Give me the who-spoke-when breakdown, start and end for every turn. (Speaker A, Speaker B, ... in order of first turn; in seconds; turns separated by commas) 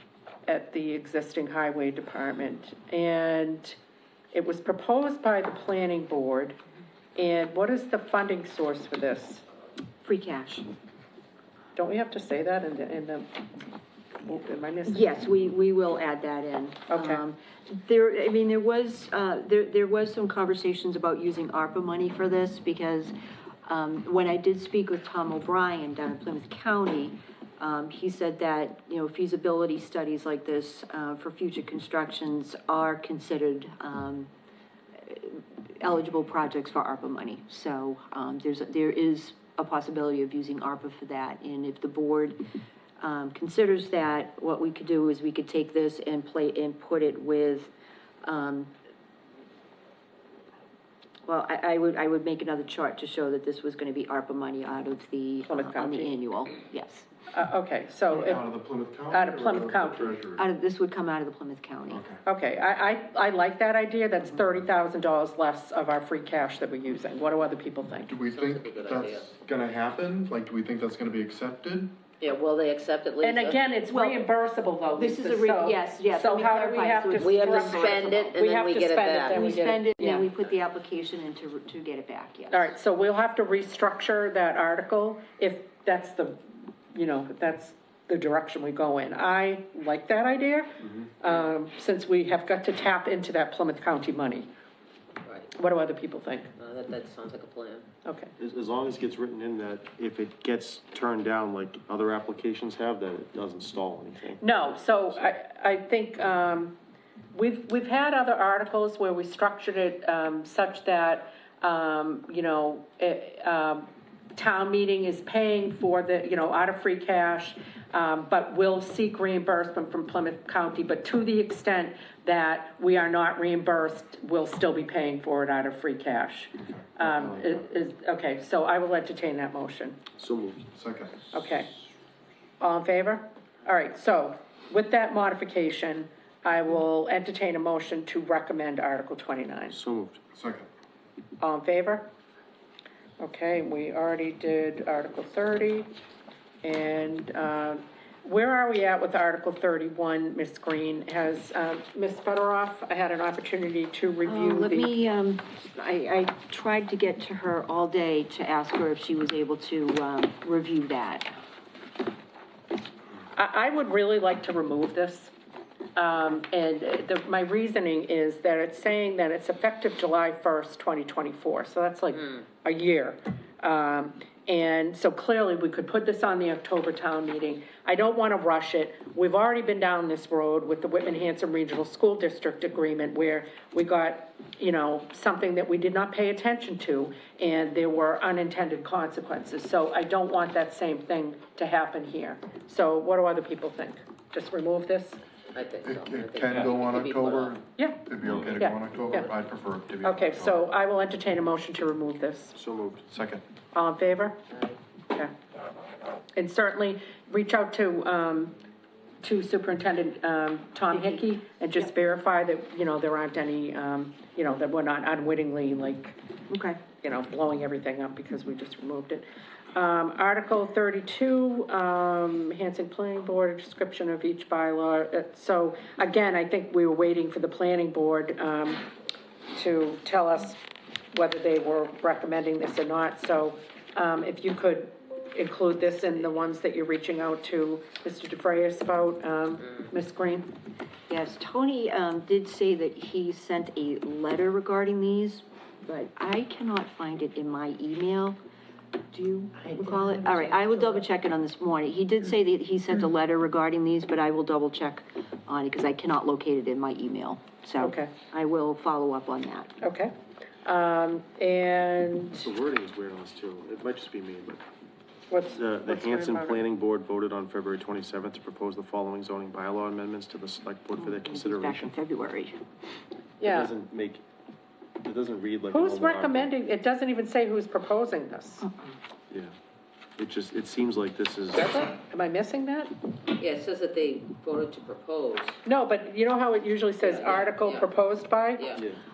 Speaker A: 0.5-3.8, Speaker A: 4.3-6.5, Speaker A: 7.2-9.4, Speaker B: 10.0-10.7, Speaker A: 11.8-13.4, Speaker A: 14.2-15.1, Speaker B: 14.9-23.1, Speaker A: 16.9-17.2, Speaker B: 23.6-34.3, Speaker B: 35.0-42.4, Speaker B: 43.0-47.7, Speaker B: 48.2-48.7, Speaker B: 51.2-57.1, Speaker A: 55.5-56.2, Speaker A: 57.3-58.4, Speaker C: 58.1-60.4, Speaker A: 59.1-60.1, Speaker B: 60.4-62.0, Speaker C: 61.9-62.2, Speaker A: 62.2-68.1, Speaker C: 68.0-71.9, Speaker D: 68.3-69.3, Speaker D: 72.2-73.6, Speaker A: 73.2-80.3, Speaker B: 73.9-74.2, Speaker B: 75.0-78.4, Speaker D: 77.2-79.5, Speaker B: 79.2-82.7, Speaker A: 82.5-94.5, Speaker D: 95.2-95.5, Speaker A: 95.5-96.5, Speaker D: 96.5-97.8, Speaker A: 98.0-98.3, Speaker E: 98.4-104.4, Speaker A: 104.4-106.7, Speaker A: 107.3-130.0, Speaker C: 126.6-127.6, Speaker E: 130.2-130.7, Speaker C: 130.7-131.2, Speaker A: 131.3-131.7, Speaker A: 132.6-139.8, Speaker E: 139.7-140.2, Speaker C: 140.3-140.7, Speaker A: 141.4-142.1, Speaker A: 143.2-145.9, Speaker A: 146.6-154.9, Speaker B: 154.2-161.3, Speaker A: 163.3-165.3, Speaker A: 165.9-195.2, Speaker D: 195.5-197.6, Speaker C: 195.8-200.6, Speaker A: 197.8-199.3, Speaker A: 200.0-202.6, Speaker E: 202.5-203.0, Speaker C: 203.1-203.4, Speaker A: 203.7-204.4, Speaker A: 206.3-208.6, Speaker A: 209.2-216.2, Speaker B: 210.9-211.2, Speaker B: 216.5-216.8, Speaker A: 217.0-228.9, Speaker A: 229.5-230.6, Speaker A: 231.1-240.5, Speaker B: 241.1-248.4, Speaker B: 249.1-259.7, Speaker A: 257.8-258.1, Speaker A: 259.8-262.5, Speaker E: 262.4-264.6, Speaker A: 265.3-266.6, Speaker E: 265.5-271.9, Speaker B: 271.0-272.5, Speaker A: 273.4-273.7, Speaker E: 273.4-274.2, Speaker E: 275.0-276.5, Speaker A: 275.7-278.7, Speaker E: 280.2-281.8, Speaker A: 281.7-282.9, Speaker D: 283.4-285.6, Speaker A: 285.6-288.8, Speaker D: 287.0-287.9, Speaker D: 288.6-288.8